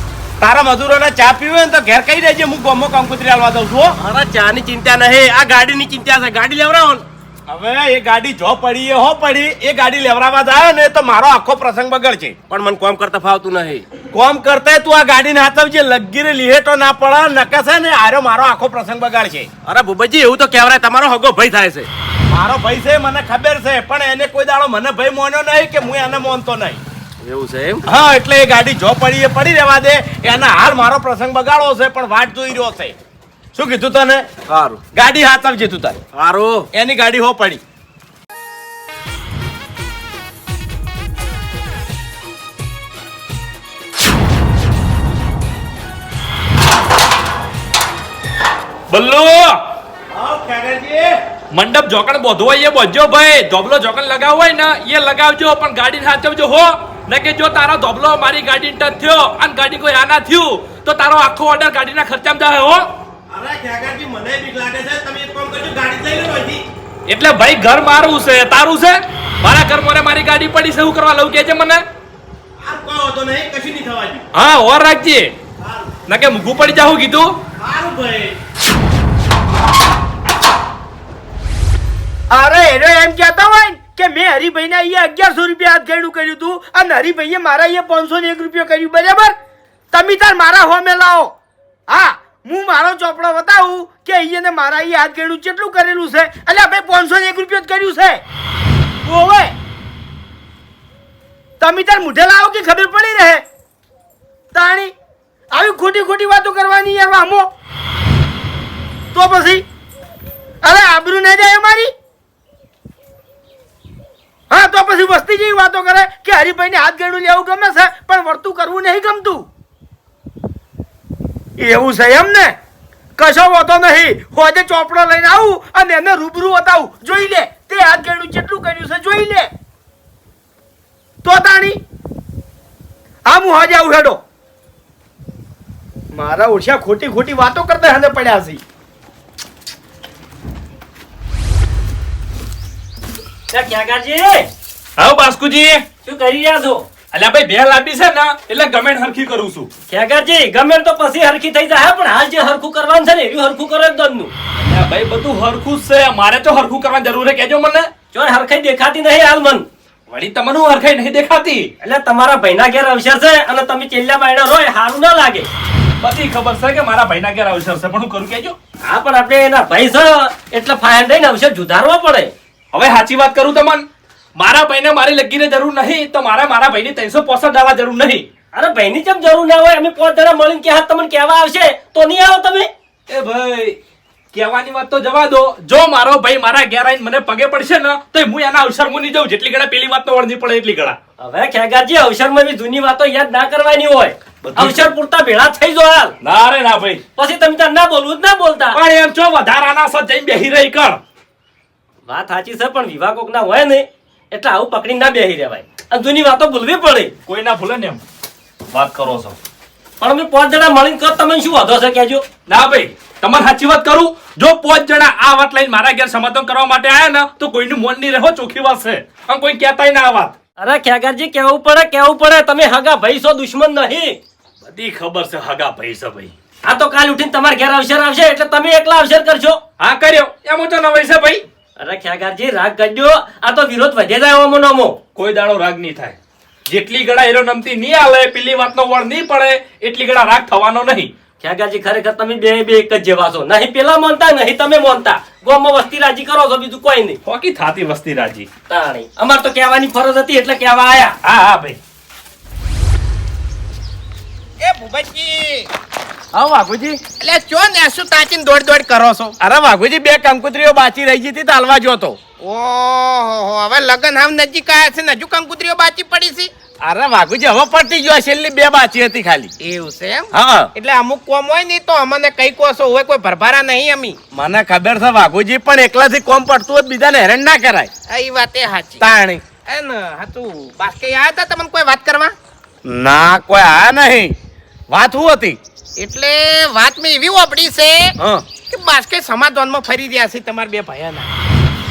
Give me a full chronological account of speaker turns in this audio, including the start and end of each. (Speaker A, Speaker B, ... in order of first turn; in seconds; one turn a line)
Speaker A: 0.4-4.0
Speaker B: 4.0-7.0
Speaker A: 7.5-12.4
Speaker B: 12.5-13.8
Speaker A: 14.1-19.5
Speaker B: 19.6-21.9
Speaker A: 22.3-26.8
Speaker B: 27.2-27.9
Speaker A: 27.9-32.9
Speaker A: 33.5-34.2
Speaker B: 34.5-34.8
Speaker A: 34.9-36.1
Speaker B: 36.1-36.7
Speaker A: 36.7-37.6
Speaker C: 48.9-49.6
Speaker A: 50.1-51.1
Speaker C: 51.5-62.9
Speaker A: 63.3-66.6
Speaker C: 67.1-71.8
Speaker A: 72.6-74.2
Speaker C: 74.3-75.3
Speaker A: 75.6-76.0
Speaker C: 76.1-77.3
Speaker A: 77.6-78.3
Speaker D: 82.3-89.4
Speaker D: 89.9-91.3
Speaker D: 91.9-98.2
Speaker D: 99.0-99.5
Speaker D: 101.6-103.4
Speaker D: 104.5-104.9
Speaker D: 105.5-107.5
Speaker D: 109.1-109.6
Speaker D: 110.6-111.9
Speaker D: 114.5-119.5
Speaker D: 121.6-122.5
Speaker D: 123.2-129.5
Speaker D: 131.2-131.8
Speaker D: 133.2-134.2
Speaker D: 136.1-138.6
Speaker E: 143.5-144.5
Speaker C: 145.0-145.8
Speaker E: 146.0-146.9
Speaker C: 147.1-149.7
Speaker E: 149.9-154.3
Speaker C: 154.6-157.9
Speaker E: 158.1-159.7
Speaker C: 160.1-161.7
Speaker E: 161.8-165.5
Speaker C: 166.0-168.6
Speaker E: 168.8-172.3
Speaker C: 172.7-173.8
Speaker C: 174.3-178.2
Speaker E: 178.5-182.7
Speaker C: 183.1-183.8
Speaker C: 184.3-191.0
Speaker E: 191.2-196.1
Speaker C: 194.4-194.9
Speaker C: 196.2-197.0
Speaker E: 197.2-198.8
Speaker C: 198.7-201.0
Speaker E: 202.1-207.1
Speaker C: 207.3-208.0
Speaker C: 208.7-209.3
Speaker E: 210.0-212.2
Speaker C: 212.5-220.3
Speaker E: 220.6-224.2
Speaker C: 224.6-226.3
Speaker E: 226.7-229.6
Speaker C: 229.8-231.4
Speaker E: 231.8-235.0
Speaker C: 235.2-236.2
Speaker C: 236.7-241.1
Speaker E: 241.4-247.2
Speaker C: 247.2-248.5
Speaker E: 248.7-251.2
Speaker C: 251.2-251.8
Speaker F: 254.6-255.7
Speaker A: 256.3-257.0
Speaker F: 257.2-259.4
Speaker A: 259.4-262.2
Speaker F: 262.4-266.5
Speaker A: 266.8-269.5
Speaker F: 269.6-274.2
Speaker A: 270.3-270.7
Speaker A: 274.3-277.9
Speaker F: 278.1-279.1
Speaker A: 279.0-279.4
Speaker F: 279.6-282.3
Speaker A: 282.8-284.3
Speaker A: 284.9-285.6
Speaker F: 286.0-291.3
Speaker A: 288.2-288.5